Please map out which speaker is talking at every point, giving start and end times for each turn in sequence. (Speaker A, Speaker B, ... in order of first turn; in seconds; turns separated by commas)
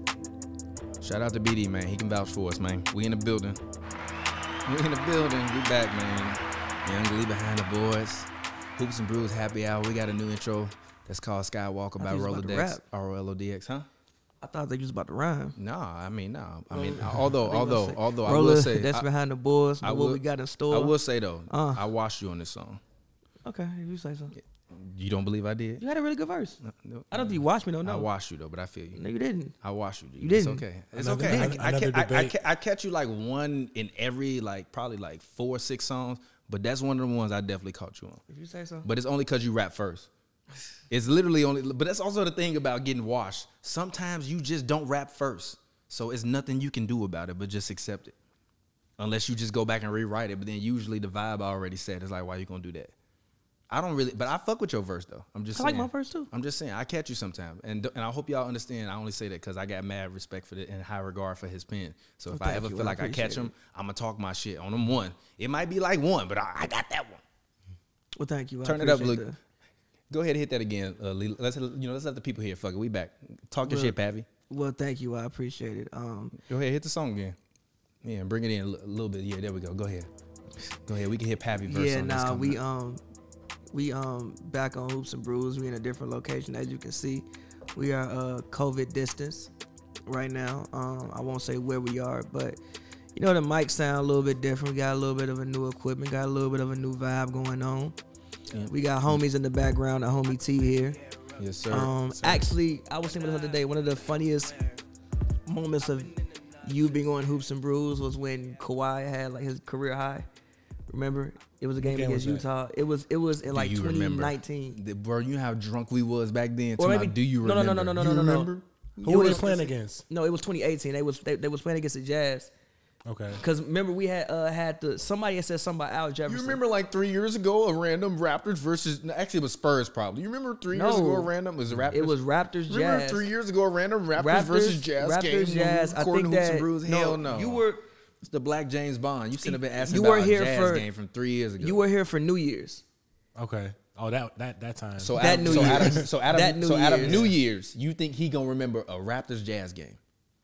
Speaker A: 1.0-3.6, Speaker A: 4.7-13.9, Speaker B: 12.0-12.8, Speaker B: 14.4-15.6, Speaker A: 15.6-19.1, Speaker B: 16.7-21.0, Speaker A: 19.8-22.8, Speaker B: 21.5-21.8, Speaker B: 23.4-24.3, Speaker A: 24.3-25.8, Speaker B: 25.8-26.6, Speaker A: 26.6-29.0, Speaker B: 27.1-28.1, Speaker B: 28.9-29.6, Speaker A: 29.6-38.2, Speaker B: 30.2-30.6, Speaker C: 30.9-32.4, Speaker B: 31.2-31.6, Speaker B: 38.3-38.9, Speaker A: 38.8-40.1, Speaker A: 40.9-48.1, Speaker A: 49.0-52.9, Speaker A: 53.7-67.2, Speaker B: 55.5-56.3, Speaker B: 62.3-63.5, Speaker B: 68.2-69.4, Speaker A: 68.6-69.3, Speaker A: 70.1-74.3, Speaker B: 73.6-74.0, Speaker B: 74.5-76.3, Speaker A: 76.3-77.4, Speaker A: 78.0-80.1, Speaker A: 80.6-82.6, Speaker B: 81.6-83.0, Speaker B: 83.7-89.5, Speaker B: 90.1-92.6, Speaker B: 93.2-98.0, Speaker A: 98.5-99.2, Speaker B: 98.7-101.0, Speaker A: 101.4-101.9, Speaker B: 101.7-104.8, Speaker C: 102.1-102.5, Speaker B: 105.5-110.3, Speaker B: 110.9-114.8, Speaker C: 111.8-112.5, Speaker A: 113.5-119.5, Speaker B: 116.8-118.5, Speaker B: 119.0-122.5, Speaker C: 119.0-120.1, Speaker C: 123.1-123.4, Speaker B: 123.4-126.6, Speaker A: 126.3-132.1, Speaker B: 130.7-131.3, Speaker B: 131.9-133.2, Speaker A: 132.7-137.6, Speaker B: 134.2-137.8, Speaker A: 138.2-141.8, Speaker B: 139.4-140.9, Speaker B: 141.6-142.8, Speaker C: 143.4-146.1, Speaker A: 145.0-150.0, Speaker B: 145.2-147.2, Speaker C: 147.0-147.3